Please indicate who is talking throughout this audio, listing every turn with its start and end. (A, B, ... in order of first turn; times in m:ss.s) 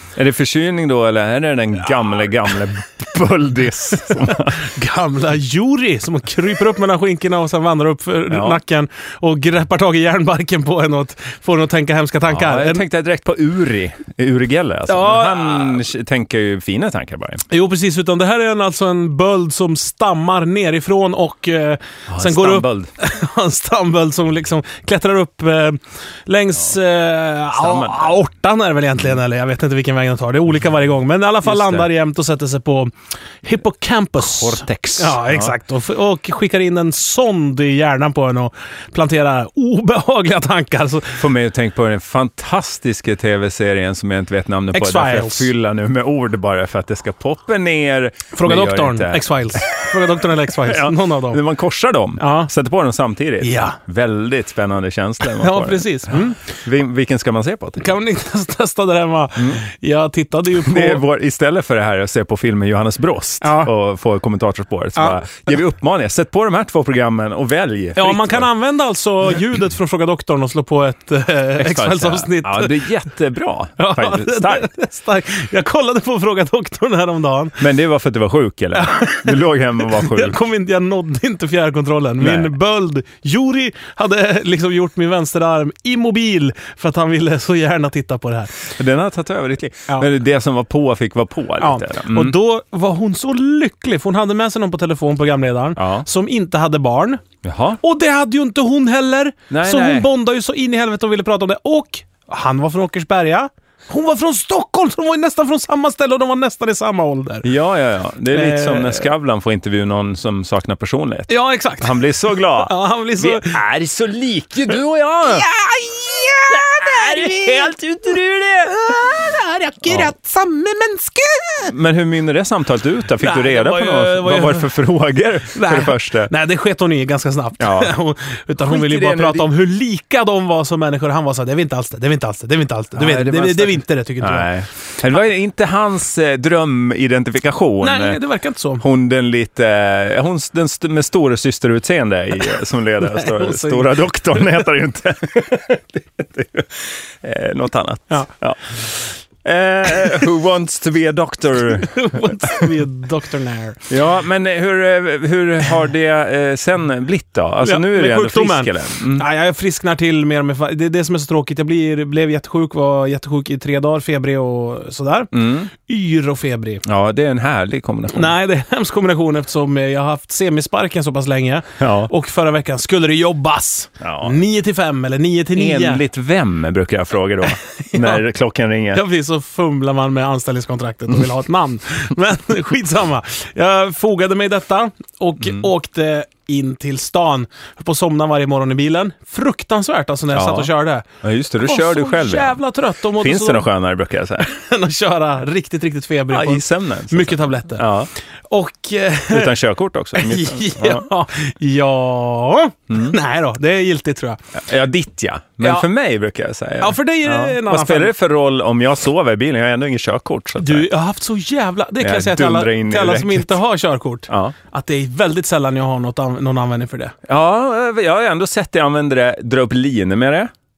0:00.2-0:04.7 A
0:04.2-0:12.8 B
0:08.3-0:08.6 A
0:12.3-0:17.4 A
0:14.9-0:15.8 B
0:17.5-0:32.9 B
0:22.1-0:22.9 A
0:27.5-0:28.2 A
0:31.4-0:31.9 A
0:33.4-0:41.2 B
0:34.2-0:35.6 A
0:41.2-0:57.8 A
0:44.7-0:45.5 B
0:48.3-0:51.4 B
0:52.2-0:52.5 B
0:53.4-0:53.8 B
0:55.2-0:56.4 B
0:57.8-1:01.0 B
0:59.4-0:59.6 A
1:00.6-1:08.5 A
1:03.4-1:03.7 B
1:08.0-1:12.8 B
1:11.6-1:14.7 A
1:13.8-1:17.6 B
1:17.6-1:20.4 A
1:18.7-1:28.7 B
1:22.2-1:22.5 A
1:28.7-1:32.4 A
1:31.6-1:37.2 B
1:35.8-1:36.0 A
1:37.4-1:37.8 A
1:37.8-1:47.5 B
1:39.5-1:40.1 A
1:47.4-1:55.5 A
1:48.3-1:49.1 B
1:51.3-1:53.6 B
1:55.3-1:57.8 B
1:56.5-1:59.0 A
1:58.8-2:01.7 B
1:59.8-2:00.1 A
2:01.6-2:06.3 A
2:03.2-2:04.7 B
2:05.5-2:14.5 B
2:07.6-2:07.9 A
2:08.6-2:09.5 A
2:13.0-2:18.2 A
2:17.8-2:18.8 B
2:18.8-2:32.8 A
2:23.1-2:24.4 B
2:31.8-2:33.9 B
2:33.9-2:39.2 A
2:37.6-2:46.8 B
2:45.3-2:45.7 A
2:46.8-2:48.3 A
2:48.1-2:56.0 B
2:51.8-2:52.1 A
2:54.0-2:54.4 A
2:55.5-2:59.0 A
2:57.8-2:58.2 B
2:58.9-3:11.1 B
3:05.4-3:05.7 A
3:10.3-3:10.7 A
3:11.2-3:12.6 A
3:11.6-3:13.7 B
3:13.2-3:14.5 A
3:14.4-3:17.9 B
3:16.3-3:18.1 A
3:18.5-3:19.5 B
3:19.3-3:21.0 A
3:20.1-3:24.4 B
3:22.9-3:23.1 A
3:24.5-3:30.9 A
3:25.6-3:25.9 B
3:26.8-3:28.1 B
3:30.6-3:37.1 B
3:32.0-3:33.6 A
3:34.3-3:34.5 A
3:37.3-3:40.5 A